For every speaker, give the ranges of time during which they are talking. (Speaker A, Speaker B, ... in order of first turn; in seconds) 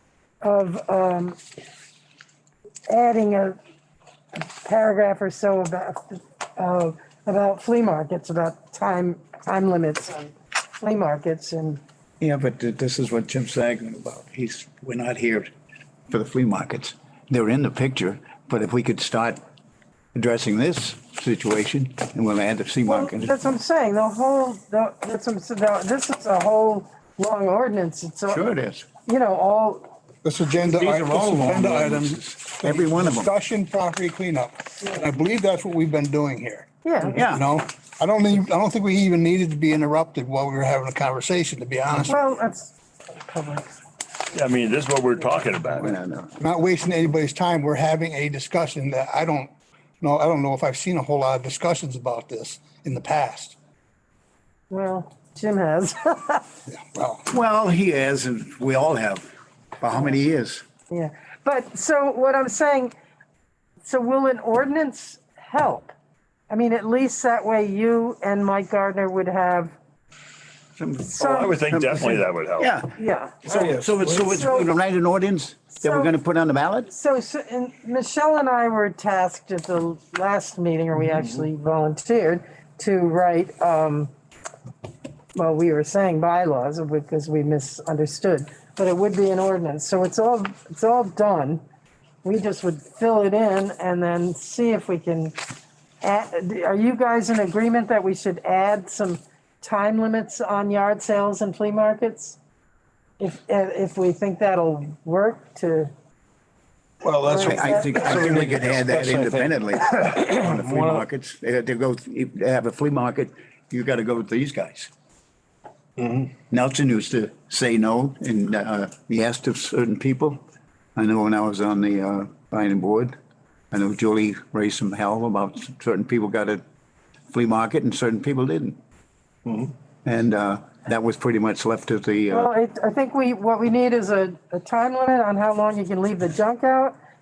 Speaker A: 0.4-1.4, 2.9-3.6, 4.4-11.8, 22.9-28.5, 29.0-30.0, 36.8-37.2, 42.1-43.8, 54.7-56.5, 60.9-62.9, 63.8-65.9, 66.5-69.8, 71.0-71.6, 73.0-74.7, 75.8-76.1, 76.9-84.1, 85.3-91.6, 92.2-95.4, 96.0-102.4, 103.2-105.9, 107.3-108.1, 132.3-137.0
Speaker B: 12.2-15.5, 16.1-19.4, 20.1-23.3, 28.3-28.9, 30.6-33.3, 37.1-37.5, 45.7-46.4, 57.3-59.3, 59.8-60.6, 70.8-73.0, 73.6-76.9, 107.4-114.9, 116.5-120.4, 121.0-123.1, 123.7-126.6, 127.3-128.8, 130.1-132.5
Speaker C: 30.2-36.7, 37.2-42.2, 46.4-53.6, 56.7-57.3
Speaker D: 44.3-46.0, 71.2-72.7
Speaker E: 73.5-74.5, 107.0-111.0, 116.0-116.3, 129.5-129.7